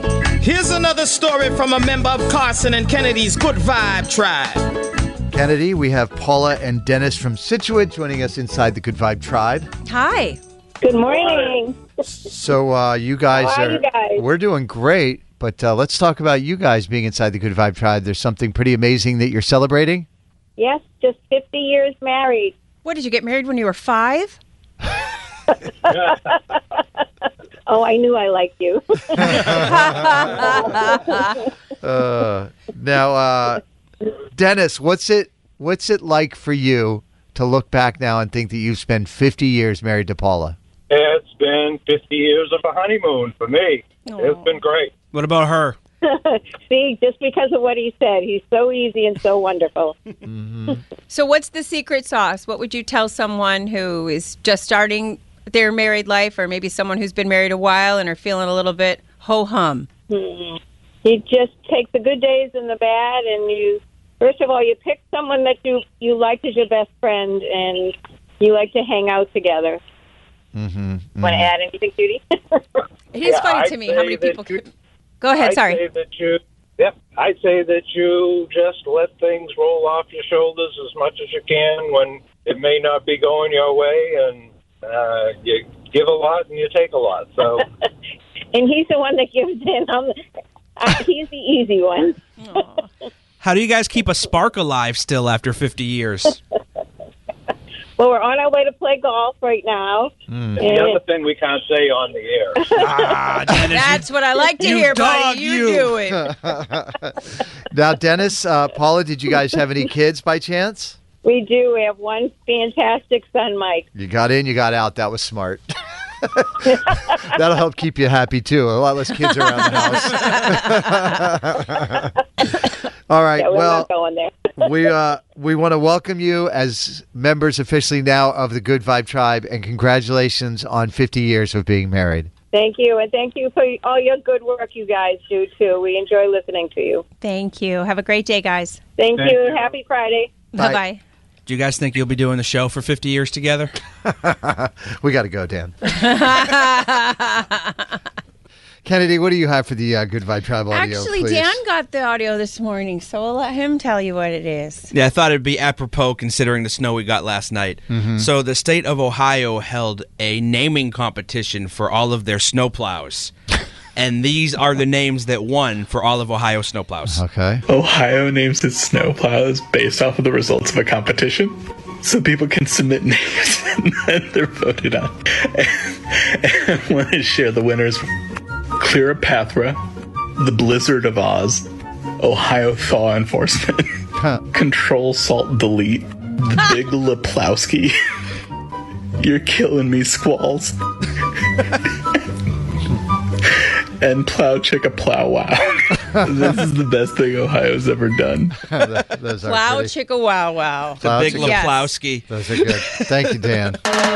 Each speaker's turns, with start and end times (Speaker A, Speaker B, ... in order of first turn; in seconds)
Speaker A: 0.4-4.7
Speaker B: 5.3-9.7, 12.2-20.1, 29.2-30.3, 31.8-33.6, 34.3-40.6, 50.2-50.8, 70.5-71.5, 100.3-100.6, 106.1-111.0, 113.9-115.7, 116.2-122.1, 123.1-123.9, 124.6-132.3, 144.0-145.8, 148.8-151.6, 157.9-158.3, 167.1-167.6, 198.7-199.9, 201.0-201.6, 202.3-203.8
Speaker C: 9.8-10.4, 22.8-24.4, 29.6-31.2, 44.0-44.6, 51.1-59.9, 73.1-74.7, 75.2-75.8, 92.4-92.8, 103.6-106.3, 120.2-120.4, 137.2-138.8, 140.5-141.0, 145.9-147.8, 150.7-154.9, 199.4-201.9
Speaker D: 10.8-11.8, 13.3-14.2, 20.6-22.5, 25.5-26.6, 27.7-31.4, 46.0-50.0, 60.1-69.8, 71.2-72.6, 88.5-90.1, 90.8-92.2, 98.0-101.0, 102.6-103.1, 111.2-113.9, 123.4-124.5, 132.5-137.0, 139.0-140.3
Speaker E: 11.1-11.6, 40.9-44.9, 73.2-74.6, 75.4-87.6, 100.6-102.7, 139.2-139.7
Speaker F: 45.1-45.8, 93.4-96.4, 102.8-105.9, 141.4-143.7, 154.9-163.3, 163.9-167.2, 201.0-202.8
Speaker G: 167.7-178.1, 178.8-179.8, 180.4-181.7, 182.2-187.9, 189.2-190.8, 193.4-198.8